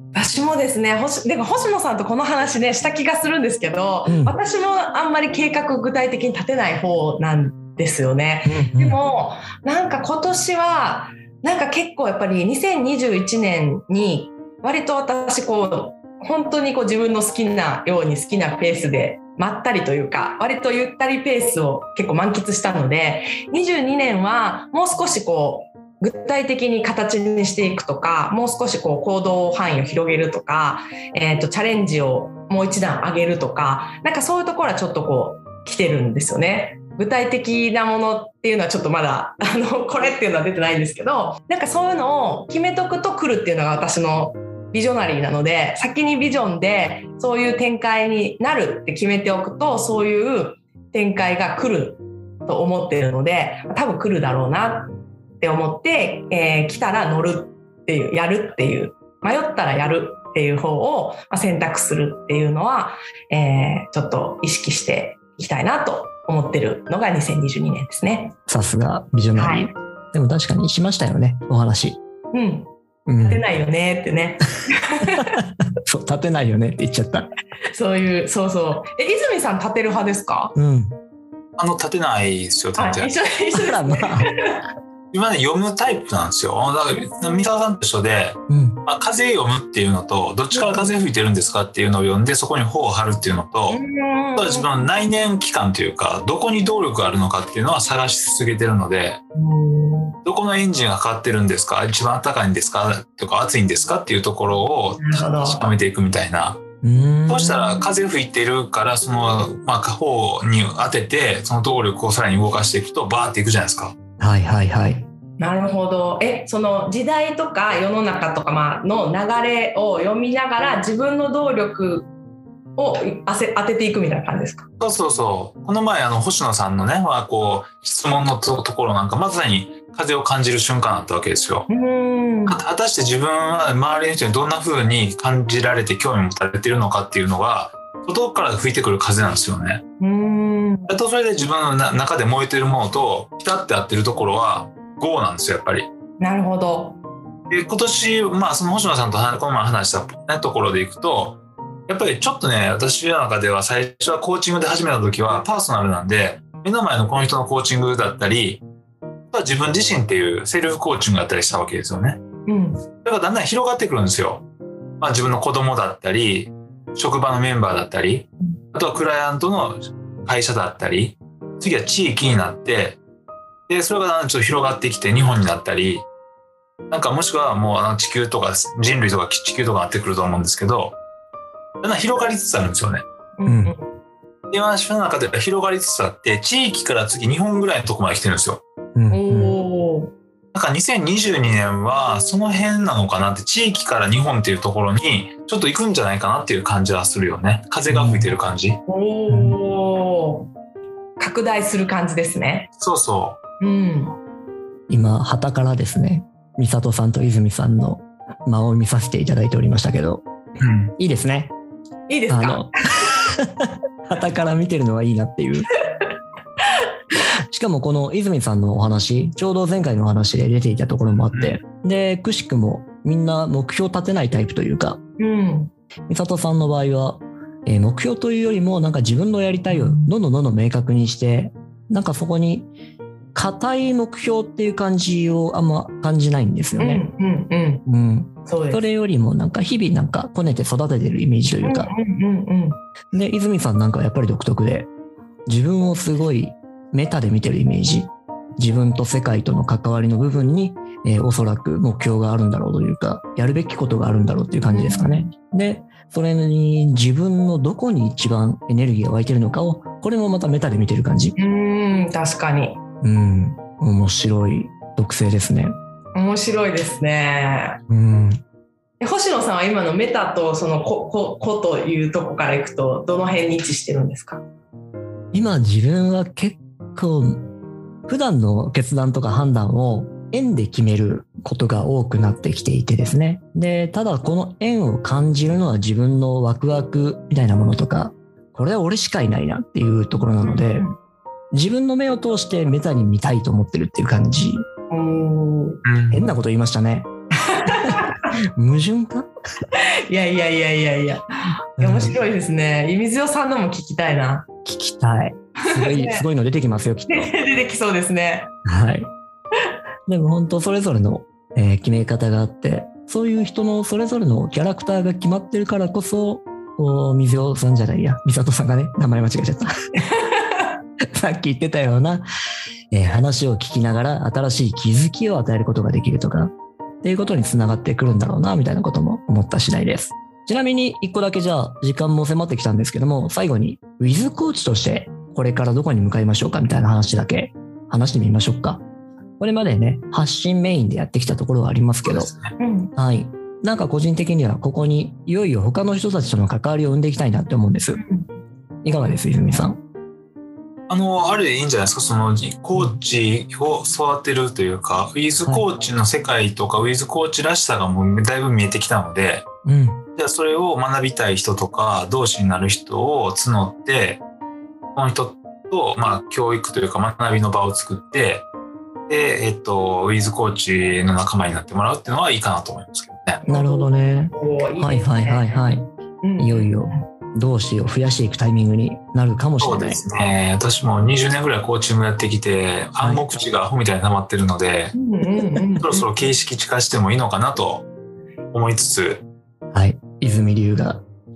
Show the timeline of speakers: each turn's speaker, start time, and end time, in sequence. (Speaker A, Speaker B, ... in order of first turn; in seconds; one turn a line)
Speaker A: 0.1-68.3
Speaker B: 4.0-4.3
Speaker B: 8.4-9.0
Speaker B: 68.5-72.0
Speaker A: 69.3-69.7
Speaker A: 72.3-72.7
Speaker B: 73.1-73.4
Speaker A: 73.2-75.4
Speaker B: 75.1-77.3
Speaker A: 77.7-80.5
Speaker B: 80.5-81.0
Speaker C: 81.6-83.1
Speaker A: 82.8-84.6
Speaker B: 83.5-84.3
Speaker C: 85.1-93.8
Speaker B: 88.5-88.8
Speaker A: 90.5-90.9
Speaker A: 93.7-94.7
Speaker C: 94.3-99.2
Speaker A: 99.3-100.2
Speaker C: 100.2-106.6
Speaker A: 105.0-105.7
Speaker B: 106.8-107.7
Speaker C: 107.3-113.9
Speaker B: 114.2-115.1
Speaker A: 115.4-122.1
Speaker A: 122.8-124.7
Speaker C: 124.8-131.7
Speaker A: 131.7-132.6
Speaker C: 132.5-139.8
Speaker A: 140.0-140.9
Speaker C: 140.9-145.9
Speaker A: 146.2-147.0
Speaker C: 147.5-158.6
Speaker C: 159.3-162.2
Speaker A: 162.4-162.8
Speaker C: 163.0-164.4
Speaker C: 165.0-173.0
Speaker C: 173.7-176.0
Speaker C: 176.9-181.0
Speaker C: 181.8-183.0
Speaker A: 183.4-183.9
Speaker B: 183.4-183.7
Speaker C: 184.5-188.6
Speaker B: 188.9-189.6
Speaker A: 189.1-190.1
Speaker C: 190.5-198.8
Speaker B: 197.9-198.3
Speaker A: 198.9-200.5
Speaker B: 199.3-199.6
Speaker A: 201.2-202.7
Speaker C: 202.8-203.4
Speaker A: 203.6-204.2
Speaker B: 204.9-210.2
Speaker C: 210.6-210.9
Speaker B: 211.0-211.5
Speaker A: 212.1-213.1
Speaker B: 212.3-215.7
Speaker B: 217.5-225.0
Speaker A: 225.2-225.7
Speaker B: 226.1-232.7
Speaker A: 229.7-230.1
Speaker B: 233.3-237.1
Speaker A: 236.8-237.8
Speaker B: 237.8-241.9
Speaker A: 238.4-238.8
Speaker A: 241.6-242.8
Speaker B: 243.1-244.9
Speaker B: 245.5-261.4
Speaker A: 254.7-255.3
Speaker A: 261.4-262.8
Speaker B: 263.0-265.8
Speaker A: 266.1-267.8
Speaker B: 267.9-268.4
Speaker A: 269.0-274.4
Speaker B: 275.3-277.5
Speaker B: 278.1-290.9
Speaker A: 290.1-291.0
Speaker B: 291.5-294.6
Speaker A: 294.9-295.8
Speaker C: 295.8-296.3
Speaker B: 296.1-297.1
Speaker A: 297.4-298.3
Speaker B: 297.6-299.3
Speaker A: 299.7-304.5
Speaker B: 301.8-302.1
Speaker B: 304.6-307.4
Speaker A: 305.6-306.2
Speaker A: 307.1-308.5
Speaker B: 308.6-309.1
Speaker B: 310.1-319.7
Speaker A: 320.1-320.7
Speaker B: 321.0-322.3
Speaker B: 322.9-338.8
Speaker B: 339.4-342.3
Speaker C: 342.0-342.5
Speaker A: 342.6-342.9
Speaker B: 342.9-348.0
Speaker A: 347.9-348.3
Speaker B: 348.8-349.8
Speaker C: 350.9-359.5
Speaker B: 359.6-360.0
Speaker C: 360.2-364.2
Speaker C: 364.9-368.5
Speaker C: 369.1-373.4
Speaker A: 373.4-375.7
Speaker B: 373.5-380.0
Speaker A: 376.2-377.0
Speaker C: 379.6-384.9
Speaker B: 383.0-383.2
Speaker A: 384.9-386.1
Speaker C: 385.8-387.9
Speaker C: 388.5-389.2
Speaker B: 389.7-391.0